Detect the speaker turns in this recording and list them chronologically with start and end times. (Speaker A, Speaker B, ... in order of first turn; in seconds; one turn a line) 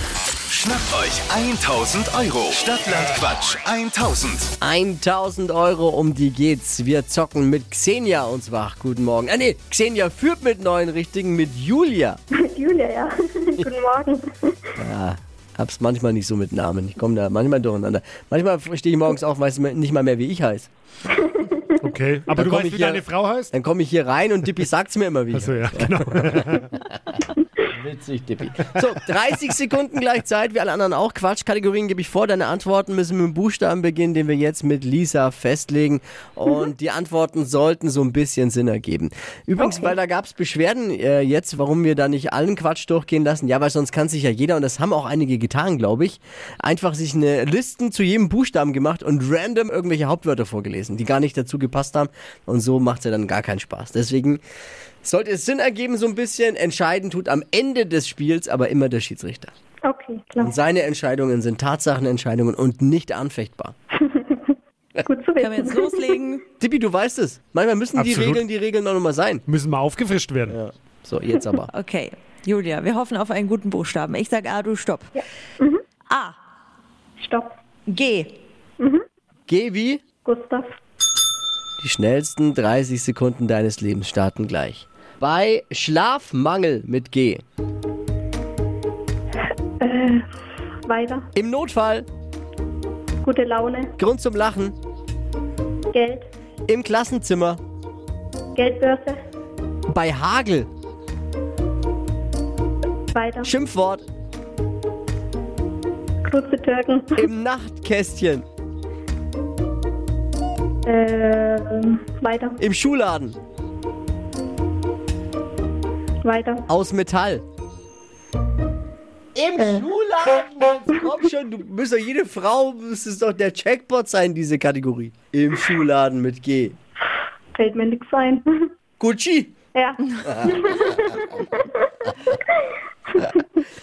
Speaker A: 0.5-4.5
Speaker B: 4.6-12.2
Speaker C: 12.4-14.7
Speaker B: 14.8-20.7
Speaker C: 21.4-21.6
Speaker D: 21.8-23.5
Speaker B: 22.3-26.8
Speaker D: 25.3-26.7
Speaker B: 27.6-54.4
Speaker B: 55.0-59.5
Speaker C: 59.9-60.5
Speaker B: 60.4-63.7
Speaker C: 64.0-66.1
Speaker E: 65.4-66.4
Speaker B: 66.6-69.4
Speaker D: 68.0-68.4
Speaker D: 69.5-70.6
Speaker B: 70.5-71.7
Speaker E: 71.7-75.2
Speaker E: 76.1-76.4
Speaker C: 77.2-77.5
Speaker E: 77.9-78.3
Speaker B: 79.5-80.0
Speaker C: 80.2-80.7
Speaker B: 81.8-87.4
Speaker C: 89.8-90.2
Speaker C: 90.9-91.3
Speaker B: 91.3-92.1
Speaker C: 93.2-93.9
Speaker B: 94.0-94.8
Speaker C: 95.9-96.2
Speaker B: 96.7-97.6
Speaker C: 98.5-99.2
Speaker B: 99.9-100.7
Speaker C: 103.1-103.5
Speaker B: 103.4-104.0
Speaker C: 106.2-107.3
Speaker B: 107.2-108.5
Speaker C: 110.9-112.6
Speaker B: 112.6-113.4
Speaker C: 116.2-116.7
Speaker B: 116.7-117.4
Speaker B: 119.3-126.8
Speaker C: 119.6-119.9
Speaker C: 127.5-128.7
Speaker B: 129.0-129.5
Speaker C: 129.7-132.6
Speaker B: 130.2-131.2
Speaker C: 133.2-133.4